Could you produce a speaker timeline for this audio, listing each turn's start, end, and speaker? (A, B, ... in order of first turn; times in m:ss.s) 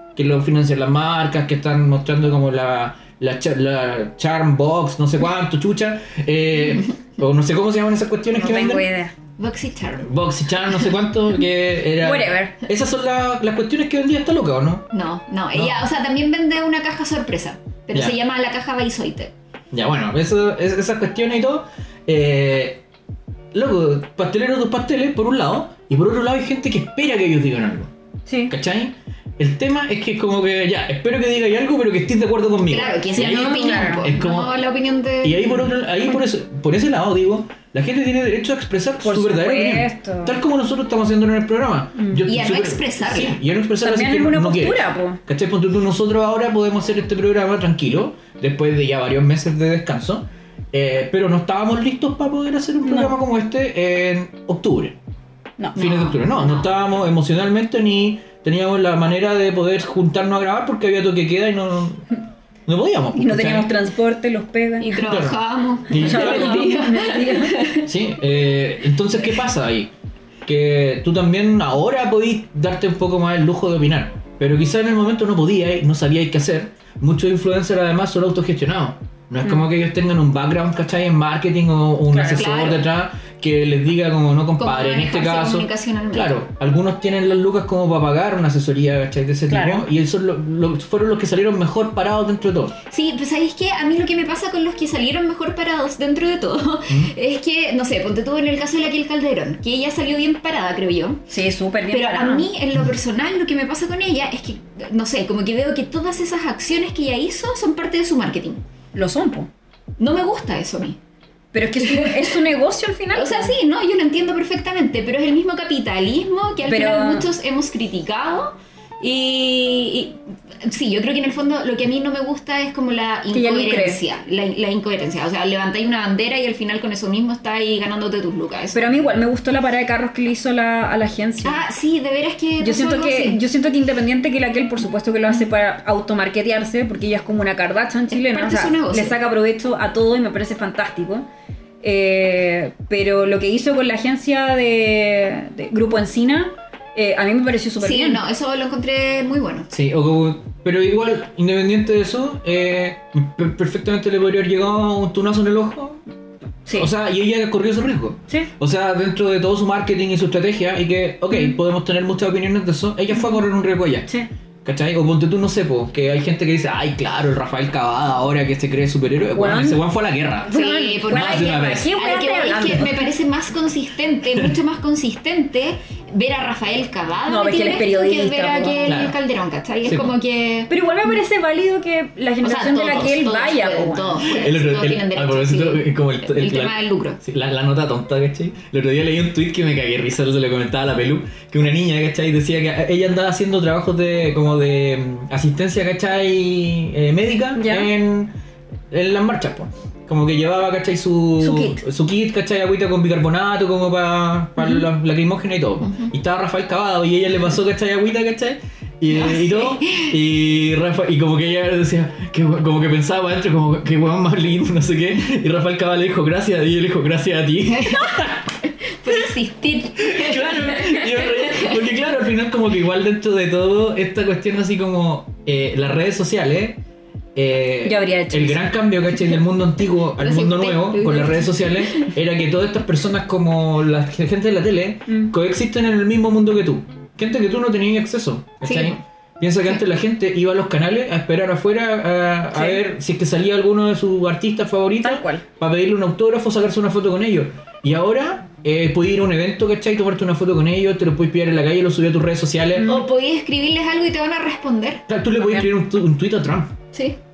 0:00.2-0:08.8 A
0:08.4-0:09.1 B
0:09.4-0:10.1 C
0:10.0-0:14.9 A
0:12.0-0:12.5 B
0:14.9-0:19.3 C
0:15.5-0:15.8 A
0:19.7-0:22.8 A
0:23.5-0:27.9 A
0:28.3-0:28.5 B
0:28.5-0:34.6 A
0:32.7-0:35.6 C
0:33.2-0:34.1 B
0:35.2-0:55.0 A
0:39.0-0:40.4 B
0:42.0-0:42.2 B
0:42.2-0:43.4 C
0:43.8-0:45.2 B
0:52.9-0:53.1 B
0:55.6-0:56.0 B
0:55.8-1:02.0 A
0:55.8-0:56.6 C
1:02.6-1:03.7 A
1:03.1-1:05.0 B
1:04.8-1:07.9 C
1:05.0-1:06.7 A
1:06.0-1:07.7 B
1:07.8-1:09.9 A
1:10.4-1:32.7 A
1:22.1-1:22.5 B
1:22.2-1:22.8 C
1:24.6-1:26.4 C
1:29.5-1:29.8 B
1:32.9-1:41.2 C
1:41.3-1:42.5 B
1:41.9-1:48.6 C
1:48.9-1:49.5 B
1:50.0-1:51.0 C
1:51.5-1:53.5 B
1:51.8-1:52.3 C
1:53.1-2:08.9 C
1:56.7-1:57.3 B
2:03.3-2:04.0 B
2:08.7-2:11.6 B
2:11.4-2:13.4 C
2:12.6-2:21.2 B
2:18.1-2:19.2 C
2:21.8-2:28.2 B
2:27.8-2:29.7 C
2:29.7-2:36.0 A
2:36.7-2:50.5 A
2:49.3-2:49.8 B
2:50.5-2:53.1 B
2:50.5-3:00.7 C
2:51.1-2:51.9 A
2:57.3-2:58.9 B
2:58.9-2:59.2 A
2:59.8-3:00.1 A
3:00.7-3:04.2 B
3:02.4-3:07.2 C
3:04.2-3:18.3 A
3:17.6-3:17.9 B
3:18.9-3:38.5 A
3:21.4-3:21.8 B
3:25.8-3:26.1 C
3:29.1-3:30.1 C
3:37.7-3:38.3 C
3:39.0-3:41.8 C
3:40.0-3:46.8 A
3:47.3-4:12.9 A
3:47.8-3:48.7 B
3:50.2-3:52.1 C
3:58.6-3:58.9 C
4:02.5-4:02.8 B
4:05.0-4:05.4 B
4:12.8-4:13.0 B
4:12.8-4:15.0 C
4:15.1-4:16.8 A